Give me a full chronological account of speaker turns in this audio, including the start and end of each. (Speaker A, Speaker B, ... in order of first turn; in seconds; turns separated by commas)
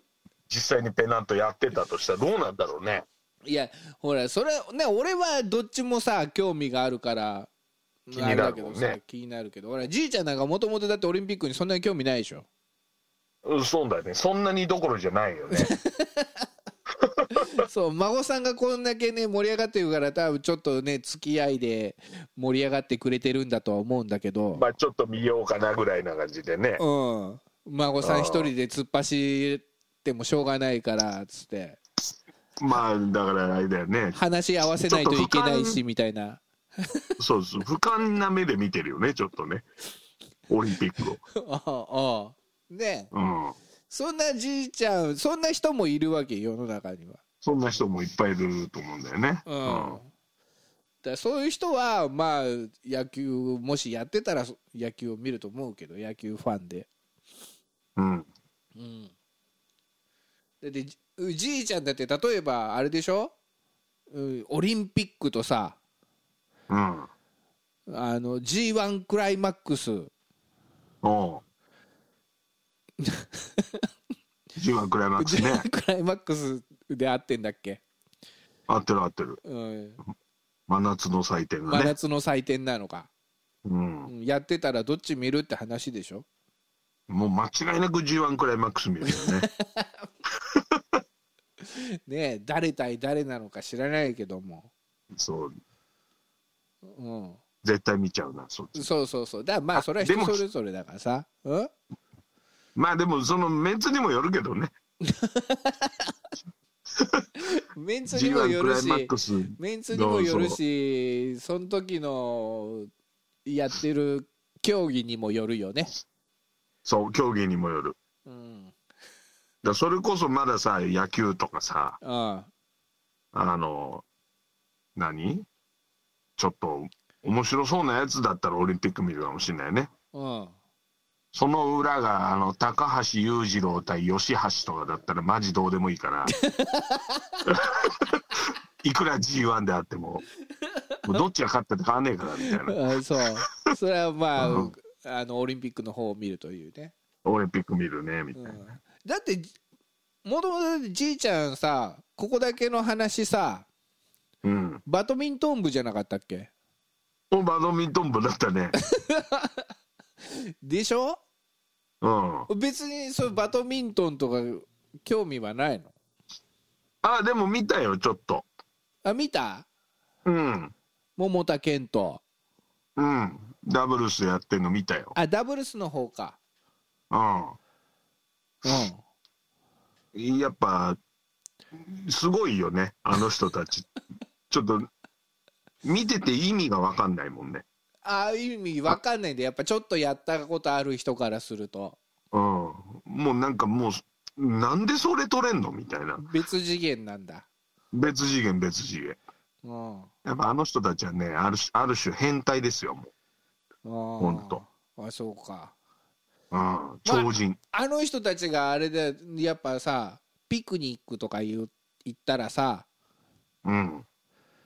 Speaker A: 0.5-3.0, Speaker B: 3.5-7.5, Speaker B: 8.1-12.4, Speaker A: 8.1-9.0, Speaker A: 13.4-15.7, Speaker B: 15.5-16.4, Speaker A: 17.0-17.5, Speaker B: 17.3-24.6, Speaker A: 24.5-26.8, Speaker B: 26.8-31.8, Speaker A: 28.0-28.5, Speaker A: 32.6-34.2, Speaker B: 34.1-37.1, Speaker A: 34.9-35.8, Speaker A: 37.2-39.6, Speaker A: 40.5-41.2, Speaker B: 41.3-43.1, Speaker A: 43.1-43.5, Speaker B: 43.9-47.2, Speaker A: 47.4-50.0, Speaker B: 49.5-50.1, Speaker B: 51.0-56.9, Speaker A: 58.0-58.3, Speaker B: 58.8-59.1, Speaker B: 60.6-63.3, Speaker B: 64.1-65.8, Speaker A: 66.7-67.1, Speaker B: 67.9-70.1, Speaker A: 71.0-71.4, Speaker B: 73.0-73.9, Speaker A: 74.5-75.7, Speaker B: 75.2-77.8, Speaker A: 78.7-79.4, Speaker B: 79.4-80.0, Speaker A: 80.7-81.9, Speaker B: 81.7-83.1, Speaker A: 83.6-84.1, Speaker B: 84.1-86.2, Speaker A: 87.1-89.5, Speaker B: 89.0-90.1, Speaker A: 90.5-91.0, Speaker B: 91.6-94.7, Speaker A: 95.1-95.5, Speaker B: 96.8-97.4, Speaker A: 97.6-98.9, Speaker B: 98.7-101.7, Speaker A: 99.7-100.4, Speaker A: 102.7-104.7, Speaker B: 105.0-106.1, Speaker A: 106.9-107.2, Speaker B: 107.3-112.9, Speaker A: 108.1-110.6, Speaker B: 113.4-115.9, Speaker A: 116.8-118.0, Speaker B: 118.2-118.7, Speaker A: 119.6-122.0, Speaker B: 122.0-122.5, Speaker A: 123.3-124.0, Speaker A: 125.0-125.5, Speaker A: 126.4-129.9, Speaker B: 130.1-130.5, Speaker A: 131.3-136.3, Speaker B: 136.3-137.4, Speaker A: 137.4-140.2, Speaker B: 140.7-141.2, Speaker A: 141.0-142.8, Speaker B: 142.4-146.9, Speaker A: 144.4-144.7, Speaker A: 147.2-148.6, Speaker B: 148.3-149.5, Speaker B: 150.2-153.7, Speaker A: 154.4-154.8, Speaker B: 154.8-156.5, Speaker A: 157.3-158.8, Speaker B: 158.8-159.7, Speaker B: 160.2-161.2, Speaker A: 162.0-162.5, Speaker B: 162.5-165.9, Speaker A: 167.0-168.4, Speaker B: 169.0-169.7, Speaker A: 170.2-170.7, Speaker B: 171.2-172.2, Speaker A: 173.0-175.1, Speaker B: 175.1-176.4, Speaker A: 177.1-177.6, Speaker B: 178.6-179.0, Speaker A: 180.1-181.0, Speaker A: 181.7-183.9, Speaker A: 184.5-184.9, Speaker A: 185.8-187.6, Speaker B: 188.0-192.0, Speaker A: 192.3-196.2, Speaker B: 196.2-197.5, Speaker A: 197.9-199.2, Speaker B: 199.6-200.1, Speaker A: 200.2-203.1, Speaker B: 203.8-205.7, Speaker A: 204.2-204.6, Speaker A: 206.5-207.6, Speaker B: 207.1-212.9, Speaker A: 213.6-214.1